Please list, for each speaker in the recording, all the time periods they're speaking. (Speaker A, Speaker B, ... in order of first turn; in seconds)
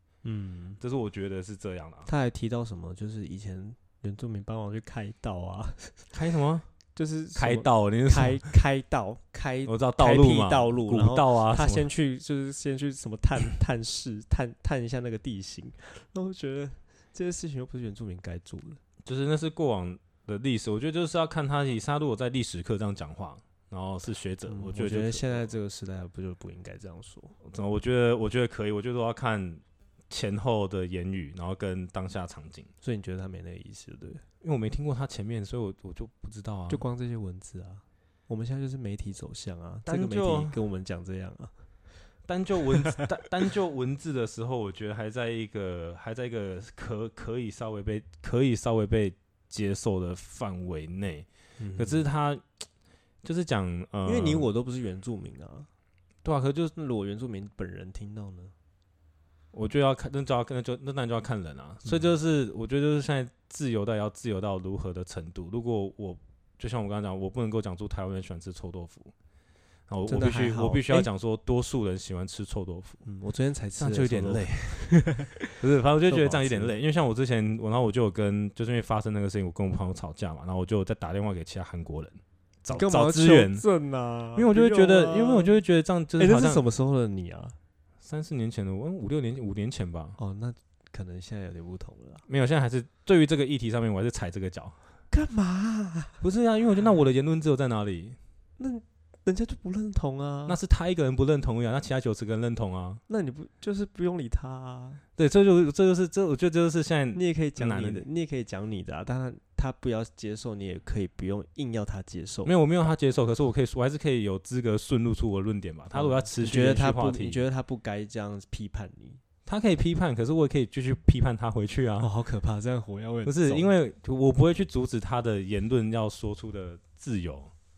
Speaker A: 0.2-0.8, 2.0-6.1, 6.9-18.8, 24.4-27.4, 32.8-34.2, 36.7-41.5, 51.6-52.0, 54.0-55.7, 56.8-58.5, 61.8-62.1, 70.1-71.1, 73.0-76.7, 82.7-85.5, 86.2-87.5, 90.2-92.2, 95.1-96.2, 98.6-100.6, 103.1-105.0, 107.1-112.8, 115.9-119.2, 122.0-123.7
Speaker B: 0.8-2.1, 6.1-6.7, 7.3-8.5, 9.6-11.9, 19.0-25.5, 27.4-32.7, 34.4-36.8, 39.9-40.5, 42.2-52.4, 53.2-54.5, 56.2-56.7, 59.5-69.1, 69.9-73.0, 73.8-74.9, 75.5-83.6, 84.3-86.6, 88.0-90.2, 92.3-94.8, 96.2-98.2, 100.5-103.0, 105.2-108.0, 112.4-117.4, 119.5-122.1, 123.2-127.5